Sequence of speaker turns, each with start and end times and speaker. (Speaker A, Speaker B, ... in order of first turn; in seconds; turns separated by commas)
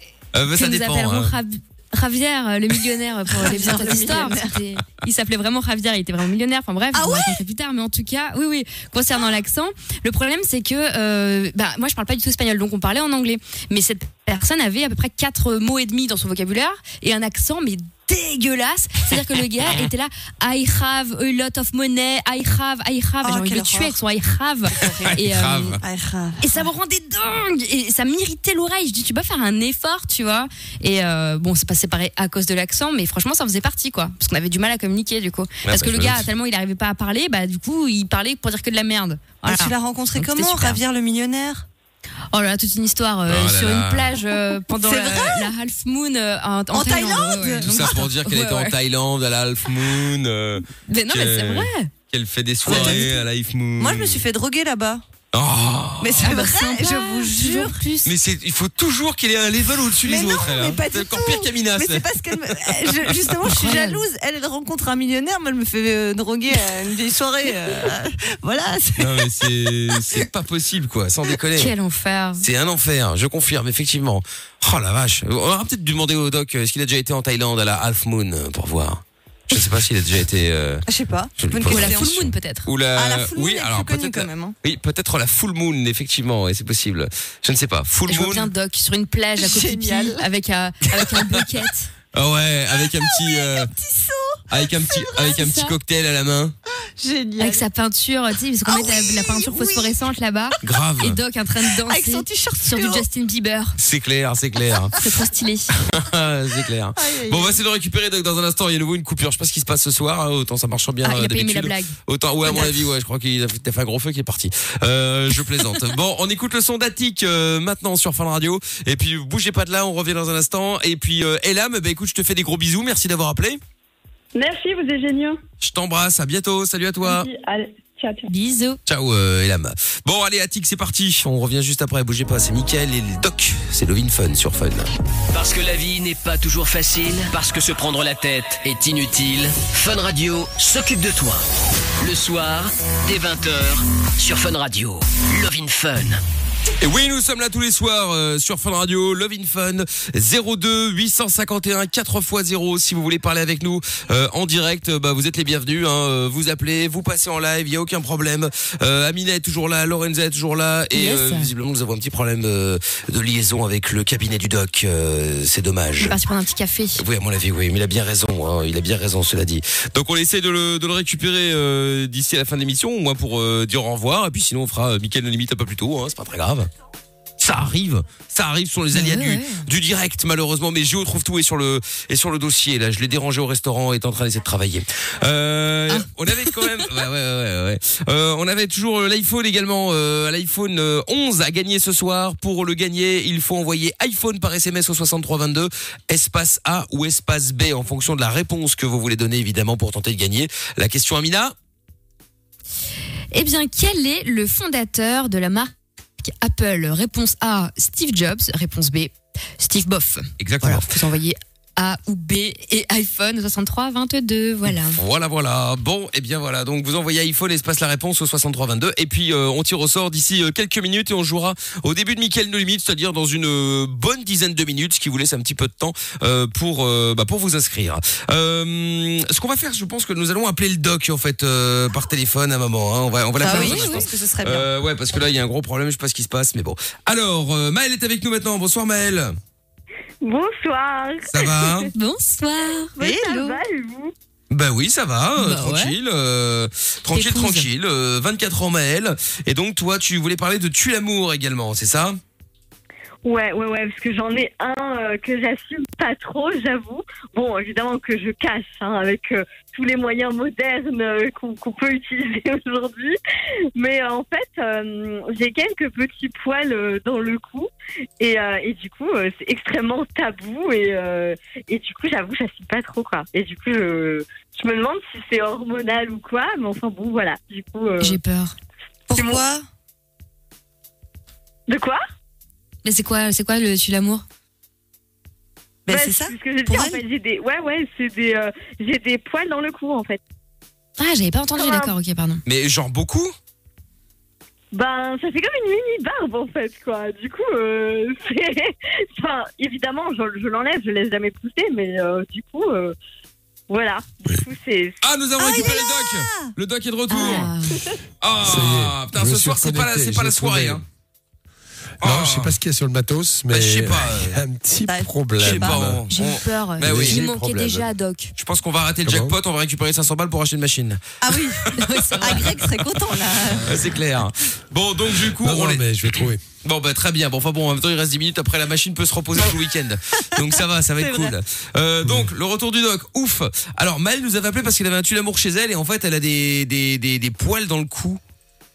Speaker A: 0.3-1.3, Speaker B: 0.5-25.8, Speaker C: 3.3-4.6, Speaker C: 6.9-7.4, Speaker C: 23.2-24.0, Speaker C: 24.7-25.2, Speaker A: 24.8-25.8, Speaker C: 25.8-26.6, Speaker B: 26.4-40.8, Speaker A: 35.6-36.3, Speaker C: 39.4-41.6, Speaker B: 42.3-48.8, Speaker A: 43.2-44.1, Speaker C: 44.8-45.5, Speaker C: 46.7-48.0, Speaker A: 47.6-54.2, Speaker B: 50.7-51.9, Speaker C: 52.6-53.0, Speaker B: 52.6-53.1, Speaker C: 53.8-55.0, Speaker A: 55.3-56.4, Speaker C: 56.0-57.8, Speaker B: 56.1-58.1, Speaker A: 58.0-63.4, Speaker C: 60.0-70.2, Speaker B: 63.4-64.0, Speaker A: 69.0-71.7, Speaker B: 71.5-72.5, Speaker A: 72.4-80.8, Speaker C: 80.9-82.2, Speaker A: 81.4-88.5, Speaker B: 81.7-82.7, Speaker C: 82.9-84.5, Speaker B: 88.1-91.9, Speaker C: 89.3-90.3, Speaker C: 90.9-91.2, Speaker A: 92.1-93.7, Speaker C: 92.7-95.4, Speaker A: 94.5-96.5, Speaker B: 95.3-95.8, Speaker C: 97.0-97.7, Speaker B: 97.4-103.8, Speaker C: 98.6-100.0, Speaker A: 100.6-101.2, Speaker C: 101.6-103.0, Speaker A: 103.8-105.0, Speaker B: 105.0-105.7, Speaker A: 105.8-123.6, Speaker C: 107.0-107.6, Speaker B: 111.0-112.0, Speaker C: 112.5-112.7, Speaker D: 124.3-125.4, Speaker A: 125.6-127.3, Speaker D: 127.0-128.3, Speaker B: 128.2-128.8, Speaker A: 128.8-134.9, Speaker E: 135.3-141.4, Speaker E: 142.0-146.2, Speaker A: 146.8-166.2, Speaker B: 160.9-161.5, Speaker B: 166.0-167.0, Speaker A: 166.9-176.7, Speaker A: 177.4-201.5, Speaker B: 178.9-179.6, Speaker B: 185.9-186.9, Speaker B: 203.3-215.0, Speaker A: 210.4-210.9, Speaker A: 214.9-239.3, Speaker C: 233.4-234.7, Speaker B: 233.5-234.1, Speaker F: 240.2-241.9, Speaker A: 241.3-241.9, Speaker B: 241.9-242.9, Speaker F: 242.9-244.1, Speaker C: 243.0-243.6, Speaker A: 244.5-252.2, Speaker B: 245.4-245.9, Speaker B: 247.1-247.7, Speaker F: 253.2-263.2, Speaker F: 263.7-278.1, Speaker B: 278.0-278.5, Speaker C: 279.1-279.6, Speaker F: 279.1-279.4, Speaker F: 281.7-282.0, Speaker B: 282.8-284.2, Speaker C: 285.9-287.0, Speaker F: 285.9-290.2, Speaker B: 291.0-292.4, Speaker F: 291.6-291.9, Speaker A: 292.4-293.3, Speaker F: 294.7-302.9, Speaker F: 303.7-305.0, Speaker A: 305.0-307.5, Speaker C: 305.4-306.5, Speaker B: 307.1-307.8, Speaker A: 308.2-310.8, Speaker G: 308.4-310.8, Speaker G: 312.0-316.0, Speaker A: 312.0-312.6, Speaker A: 313.5-314.4, Speaker C: 314.9-315.9, Speaker A: 315.4-317.3, Speaker B: 316.1-318.3, Speaker G: 316.8-317.9, Speaker A: 318.4-321.0, Speaker G: 319.0-319.4, Speaker C: 321.2-323.9, Speaker A: 321.6-322.6, Speaker B: 321.7-322.5, Speaker A: 323.5-325.8, Speaker G: 325.2-326.4, Speaker A: 326.6-338.2, Speaker C: 330.4-331.3, Speaker G: 332.0-332.3